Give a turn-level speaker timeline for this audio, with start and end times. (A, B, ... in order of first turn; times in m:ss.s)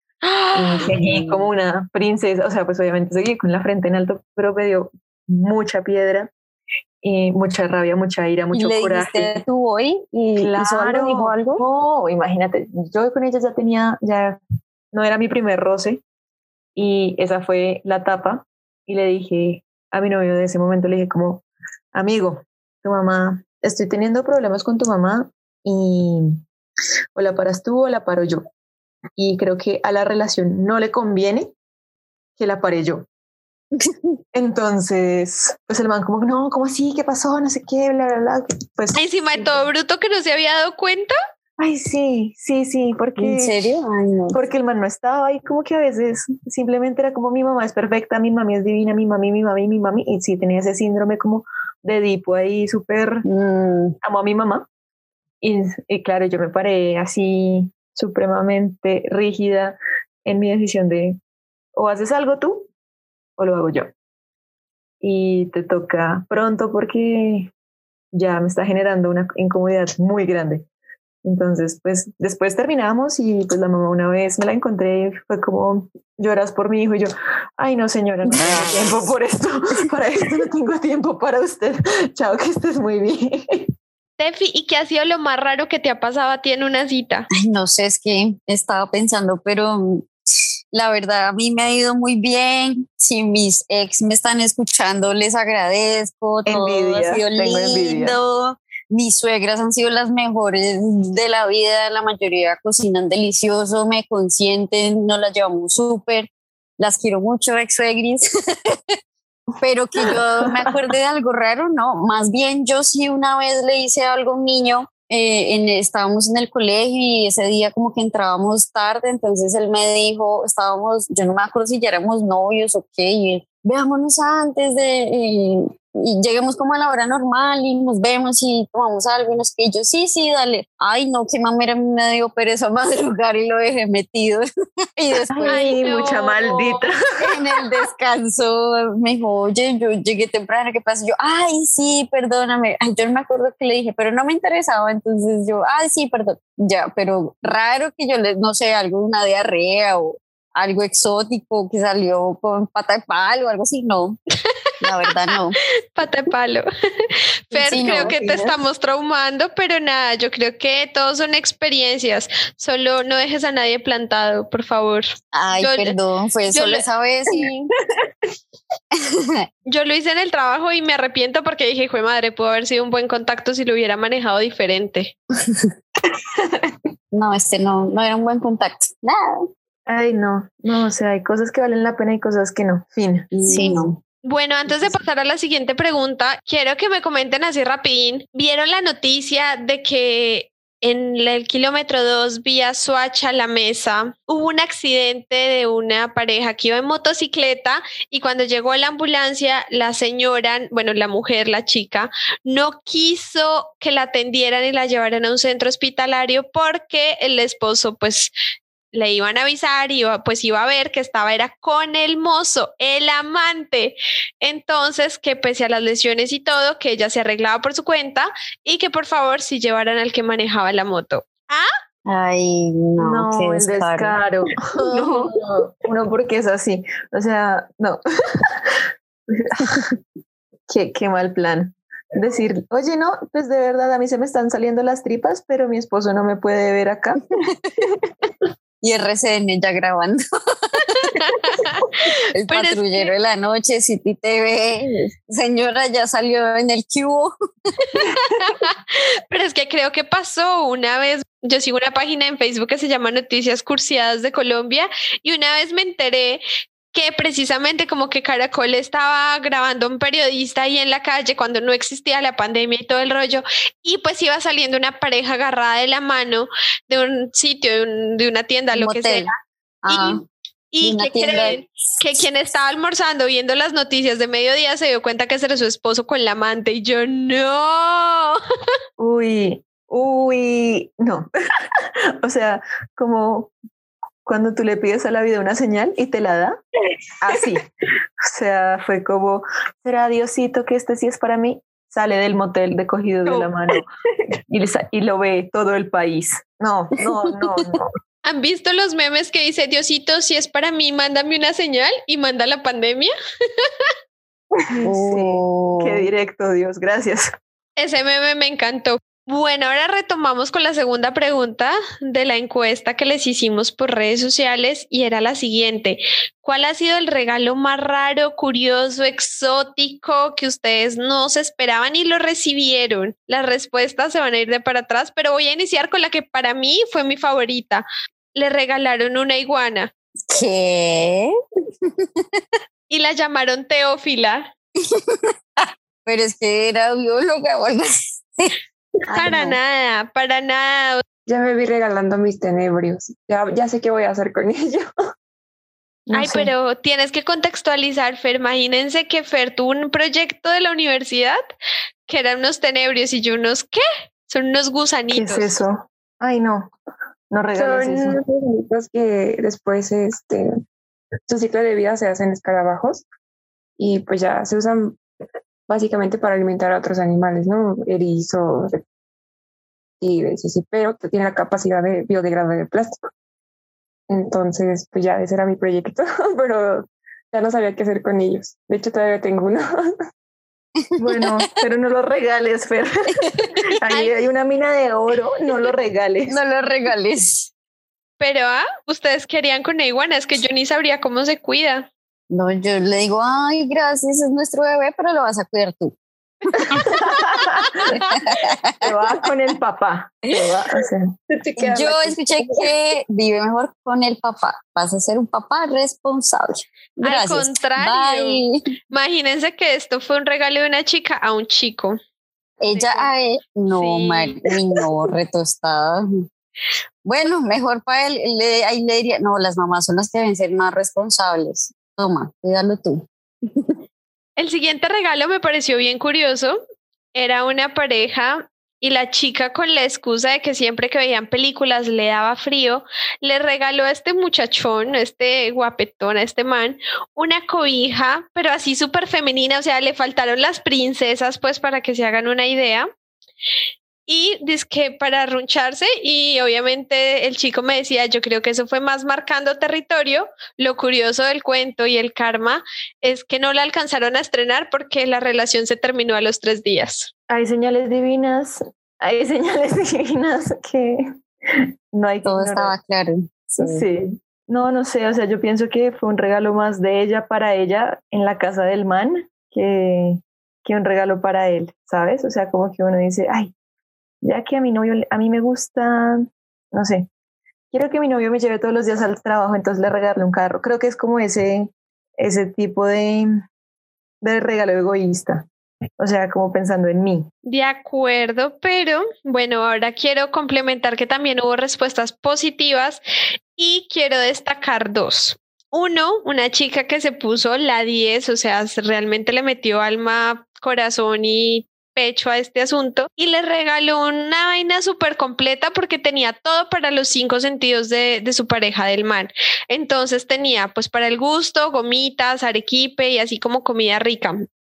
0:00.2-0:01.5 A
0:00.5-0:06.3 B
0:07.0-0:09.4 B
0:08.5-0:11.6 A
0:10.4-0:14.4 B
0:14.9-0:16.0 B
0:16.8-0:26.4 B
0:27.1-0:28.4 B
0:29.2-0:31.5 B
0:32.4-0:33.0 B
0:33.8-0:34.2 A
0:34.3-0:39.6 B
0:38.9-0:41.1 C
0:41.6-0:43.6 B
0:43.2-0:44.4 A
0:44.3-0:53.2 B
0:53.2-0:54.0 A
0:54.0-0:54.7 B
0:55.4-1:01.2 B
1:01.7-1:02.7 B
1:03.4-1:03.9 B
1:05.0-1:07.5 B
1:08.1-1:10.6 B
1:11.2-1:23.6 B
1:18.3-1:18.8 A
1:24.2-1:27.3 C
1:27.3-1:30.1 A
1:30.7-1:48.2 A
1:36.4-1:38.2 B
1:49.6-2:14.4 A
2:15.0-2:15.8 A
2:15.3-2:17.4 B
2:15.4-2:16.8 C
2:17.2-2:34.2 A
2:34.8-2:35.6 A
2:35.9-2:36.7 C
2:37.5-2:45.9 C
2:37.5-2:38.6 A
2:45.3-2:47.7 A
2:46.5-2:46.8 C
2:49.0-2:49.4 A
2:49.7-2:55.1 C
2:57.1-2:59.4 A
2:59.9-3:03.6 B
3:03.3-3:04.0 A
3:03.5-3:28.3 C
3:28.9-3:41.7 C
3:42.0-3:44.1 A
3:43.0-3:48.8 B
3:49.3-3:50.0 B
3:50.7-3:57.2 B
3:58.8-4:00.2 A
4:00.7-4:01.3 A
4:00.9-4:03.1 C
4:02.3-4:08.0 A
4:07.9-4:08.8 C
4:09.3-4:16.4 C
4:16.9-4:29.3 C
4:28.7-4:29.3 A
4:29.8-4:30.2 A
4:29.9-4:30.2 C
4:30.7-4:38.4 C
4:30.8-4:31.6 A
4:39.0-4:41.3 B
4:42.2-4:43.5 B
4:44.2-4:46.6 B
4:47.2-4:47.6 B
4:48.2-4:53.9 B
4:54.5-4:57.9 B
4:58.2-5:03.7 C
5:04.8-5:06.1 A
5:04.9-5:07.3 B
5:07.8-5:29.9 C
5:30.3-5:31.3 A
5:31.8-5:32.4 A
5:32.9-5:34.5 C
5:34.9-5:38.5 A
5:39.1-5:39.6 B
5:39.1-5:41.0 C
5:41.2-5:44.9 D
5:46.1-5:46.5 B
5:46.1-5:51.4 C
5:52.1-5:55.5 C
5:55.1-5:56.7 B
5:57.3-5:58.2 B
5:57.5-6:00.5 D
6:01.3-6:03.0 D
6:03.8-6:05.0 D
6:05.7-6:08.8 D
6:10.0-6:13.0 D
6:14.1-6:19.7 D
6:21.0-6:21.3 A
6:21.0-6:22.9 B
6:23.2-6:23.7 A
6:23.8-6:26.4 B
6:26.3-6:27.5 A
6:28.2-6:31.9 C
6:32.3-6:36.0 A
6:36.5-6:37.2 A
6:36.7-6:38.0 B
6:37.8-6:39.0 A
6:38.8-6:41.1 B
6:41.3-6:42.7 D
6:41.6-6:48.6 A
6:47.0-6:52.0 C
6:52.6-6:56.1 A
6:52.7-6:53.1 C
6:53.7-6:54.4 C
6:57.0-7:03.7 A
7:04.4-7:06.6 C
7:07.1-7:22.9 C
7:24.1-7:37.1 C
7:37.3-7:42.7 B
7:42.2-7:43.8 A
7:43.6-7:53.5 B
7:54.2-7:57.1 B
7:57.7-8:03.3 B
8:04.2-8:05.5 B
8:06.0-8:07.3 B
8:07.4-8:13.0 C
8:13.6-8:34.4 C